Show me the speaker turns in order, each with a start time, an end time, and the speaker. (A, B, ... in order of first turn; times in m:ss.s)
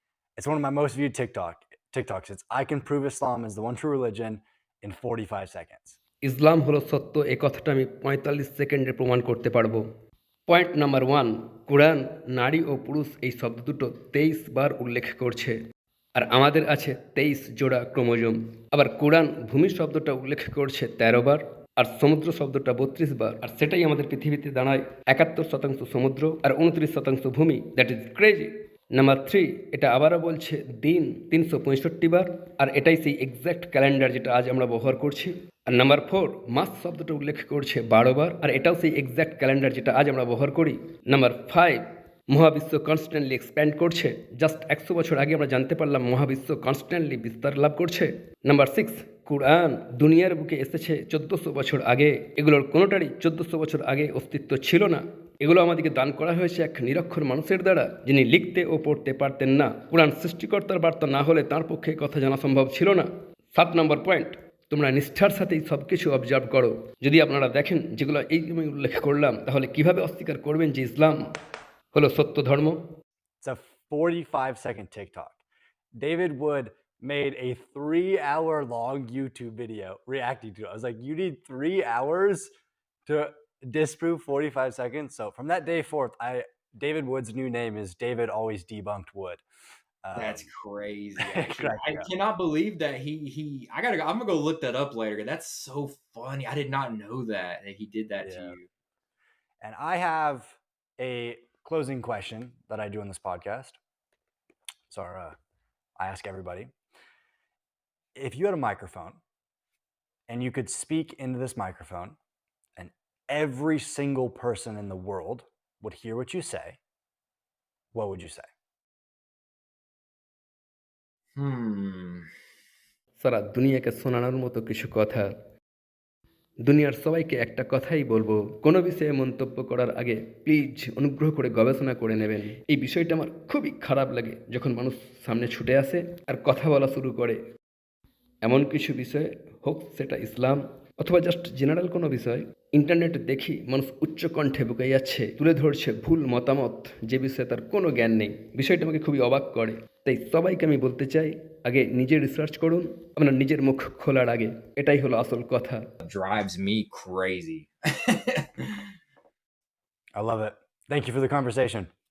0:00.4-0:06.0 A
0:06.2-0:09.8 B
0:10.5-0:15.6 B
0:16.2-1:11.2 B
1:11.9-1:12.8 B
1:13.4-1:15.4 A
1:16.0-1:22.5 A
1:23.0-1:29.4 A
1:30.0-1:30.5 A
1:30.2-1:38.7 C
1:31.2-1:32.1 A
1:38.2-1:38.6 A
1:39.6-1:43.8 A
1:44.9-1:45.4 A
1:46.0-1:46.7 A
1:48.1-1:49.2 A
1:50.3-1:52.2 A
1:52.8-1:56.8 A
1:57.9-1:58.5 A
2:01.4-2:02.3 C
2:03.2-2:05.3 B
2:06.6-2:17.4 B
2:18.4-2:35.8 B
2:36.0-2:38.8 C
2:40.2-2:41.9 A